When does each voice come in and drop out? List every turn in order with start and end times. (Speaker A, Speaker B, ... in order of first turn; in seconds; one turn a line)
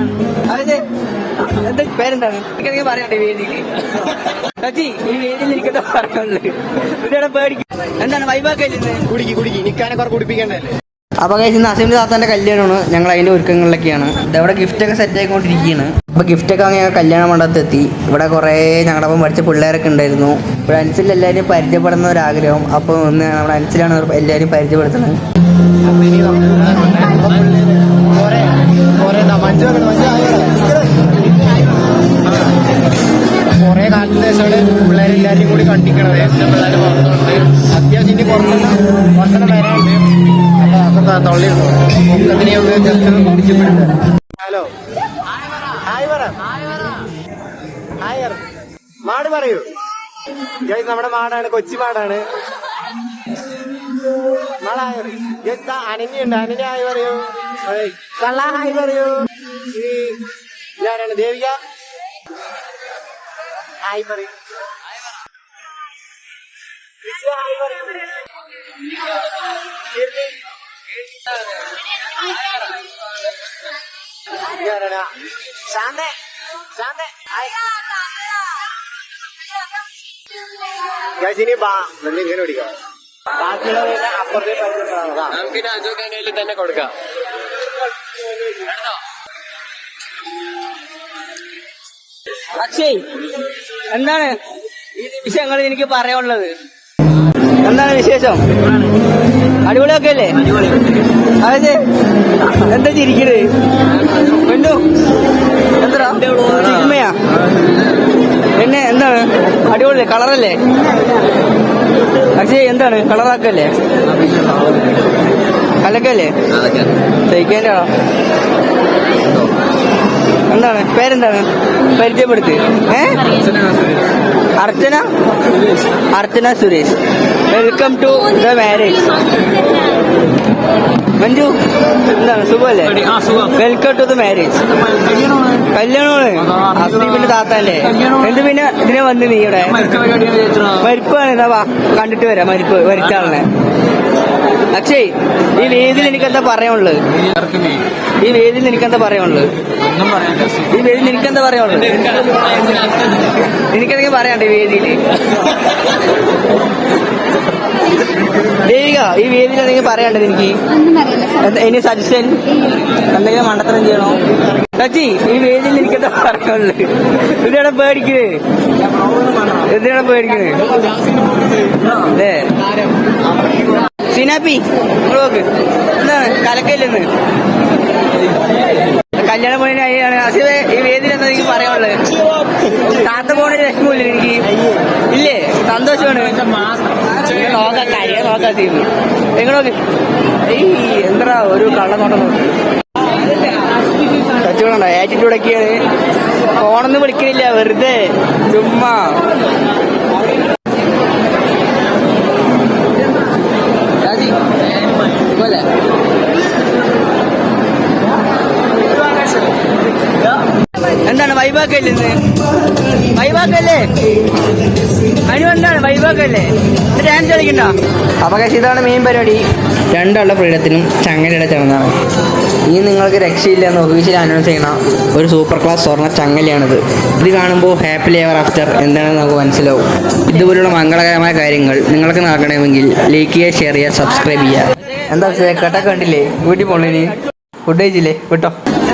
Speaker A: 0.5-0.8
Speaker A: 1.5-3.7
Speaker A: 4.6-9.0
Speaker B: 9.1-10.8
Speaker A: 11.2-25.2
Speaker B: 25.8-31.4
Speaker B: 33.5-44.7
Speaker C: 36.8-37.2
Speaker B: 45.7-46.5
Speaker B: 48.0-48.5
Speaker B: 49.0-49.7
Speaker B: 50.6-52.2
Speaker B: 54.6-60.2
Speaker B: 60.8-61.6
Speaker B: 63.8-64.3
Speaker B: 67.0-68.0
Speaker B: 70.0-70.4
Speaker B: 74.5-76.1
Speaker B: 76.8-77.6
Speaker B: 81.2-82.7
Speaker B: 83.4-85.4
Speaker C: 85.3-86.9
Speaker A: 92.5-93.1
Speaker A: 93.9-94.4
Speaker A: 95.0-96.6
Speaker A: 97.6-98.5
Speaker A: 99.7-100.7
Speaker A: 101.4-101.8
Speaker A: 102.5-103.5
Speaker A: 104.2-104.8
Speaker A: 105.8-107.2
Speaker A: 108.6-110.6
Speaker A: 112.4-113.8
Speaker A: 115.8-116.4
Speaker C: 116.6-116.9
Speaker A: 117.3-117.9
Speaker A: 120.5-123.3
Speaker C: 123.6-123.9
Speaker A: 124.6-125.1
Speaker A: 126.1-127.0
Speaker A: 127.5-129.1
Speaker A: 131.2-131.6
Speaker A: 132.1-134.6
Speaker A: 135.5-143.5
Speaker A: 144.7-147.0
Speaker A: 148.2-149.5
Speaker A: 150.4-152.4
Speaker A: 153.6-155.0
Speaker A: 158.5-162.4
Speaker A: 163.0-164.2
Speaker A: 164.7-168.4
Speaker A: 169.6-170.7
Speaker A: 171.9-172.5
Speaker A: 174.1-177.1
Speaker A: 179.1-182.0
Speaker A: 182.7-184.5
Speaker A: 185.1-186.4
Speaker A: 187.1-189.8
Speaker A: 190.4-192.5
Speaker A: 194.4-195.8
Speaker A: 196.5-199.2
Speaker A: 205.4-205.7
Speaker A: 211.1-212.2
Speaker A: 213.2-213.9
Speaker A: 215.3-219.4
Speaker A: 219.9-221.9
Speaker A: 222.7-237.2
Speaker A: 237.7-238.6